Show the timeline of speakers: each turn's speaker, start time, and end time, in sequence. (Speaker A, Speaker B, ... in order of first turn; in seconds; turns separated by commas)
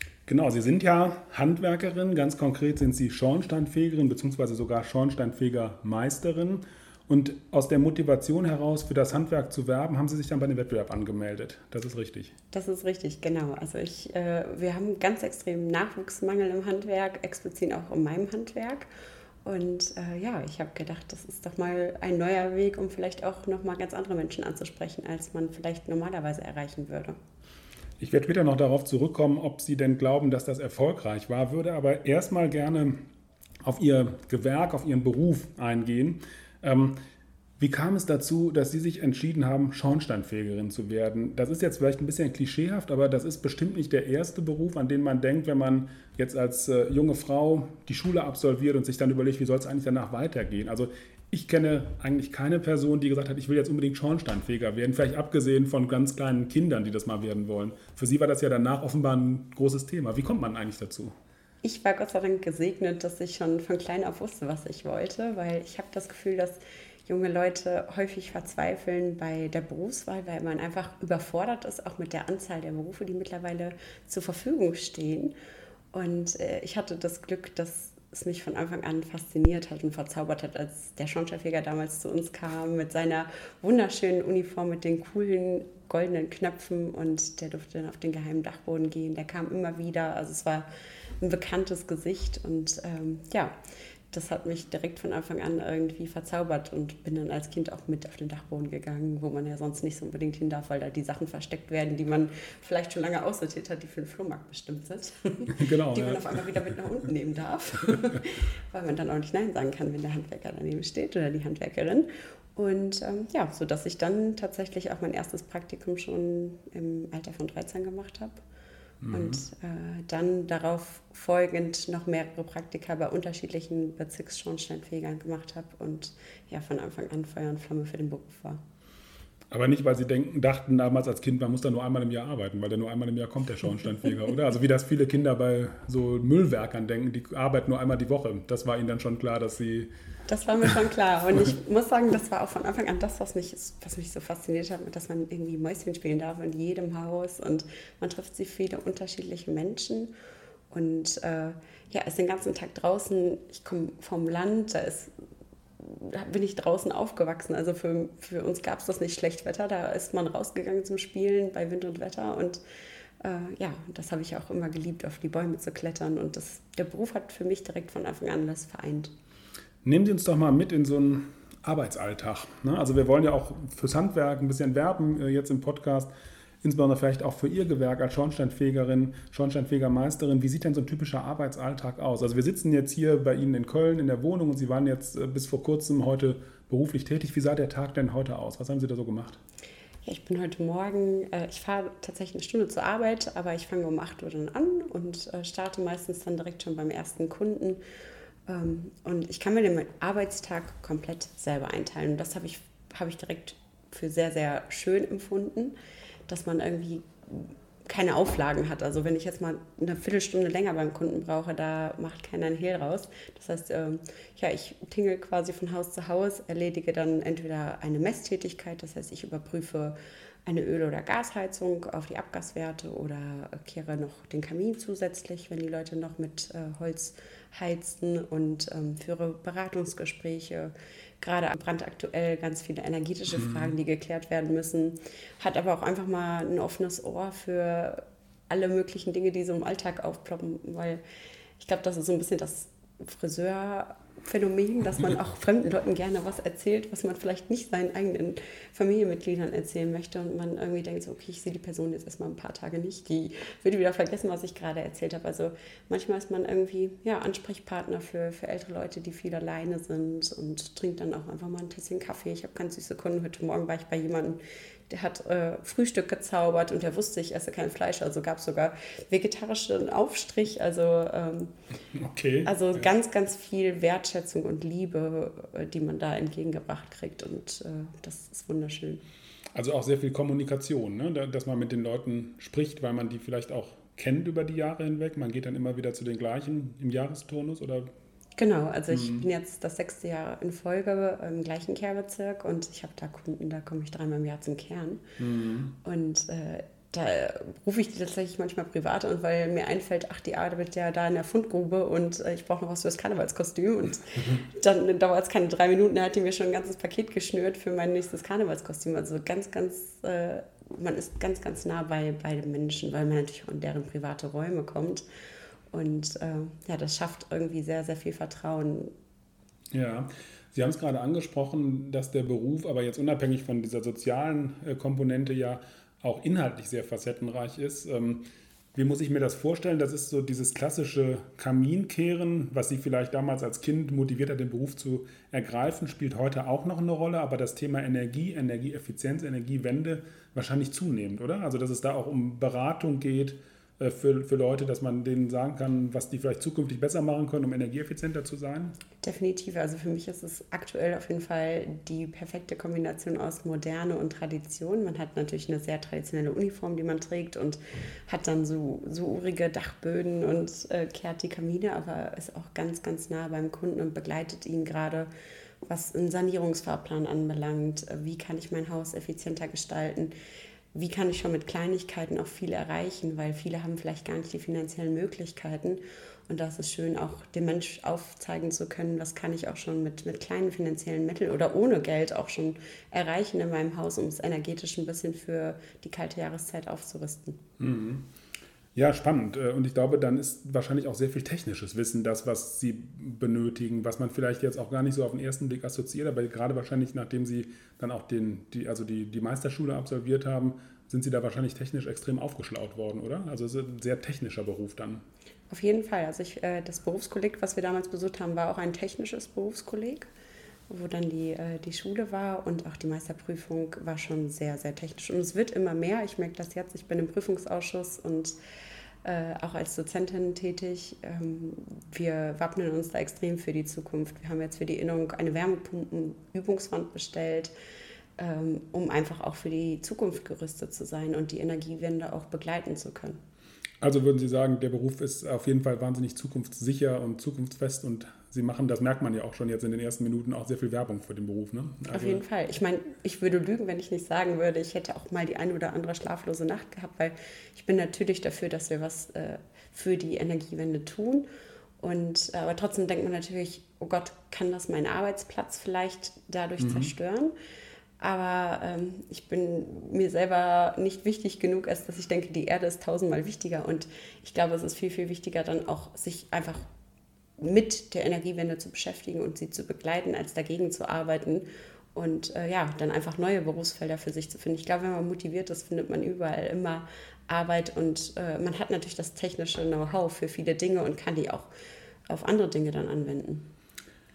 Speaker A: 0.3-12.3, Speaker B: 12.5-18.9, Speaker B: 19.4-27.2, Speaker A: 28.0-33.0, Speaker A: 33.6-37.0, Speaker A: 37.6-61.1, Speaker B: 61.6-75.3, Speaker B: 75.9-90.7, Speaker B: 91.2-93.5, Speaker B: 94.1-118.4, Speaker A: 105.5-106.6, Speaker A: 119.0-119.4, Speaker B: 119.1-128.6, Speaker A: 129.5-139.9, Speaker B: 140.3-150.1, Speaker B: 150.7-155.1, Speaker B: 155.8-162.6, Speaker B: 163.2-169.1, Speaker A: 169.8-176.1, Speaker A: 176.6-189.4, Speaker B: 190.1-197.8, Speaker B: 198.5-205.7, Speaker B: 206.3-219.9, Speaker B: 220.5-241.0, Speaker B: 241.6-271.5, Speaker A: 271.9-272.8, Speaker B: 272.4-279.0, Speaker A: 279.6-287.9, Speaker B: 288.4-295.1, Speaker A: 288.9-289.3, Speaker A: 295.2-295.7, Speaker B: 295.8-315.1, Speaker B: 315.7-318.9, Speaker A: 319.7-348.8, Speaker B: 349.0-365.1, Speaker B: 365.6-370.1, Speaker B: 370.7-387.4, Speaker A: 387.6-388.1, Speaker A: 388.8-405.0, Speaker B: 405.5-410.1, Speaker B: 410.7-418.4, Speaker B: 419.0-427.5, Speaker B: 428.2-433.2, Speaker A: 433.8-442.2, Speaker B: 441.9-451.3, Speaker B: 451.8-457.3, Speaker A: 456.6-456.9, Speaker B: 458.0-466.7, Speaker B: 467.4-481.5, Speaker B: 482.1-483.5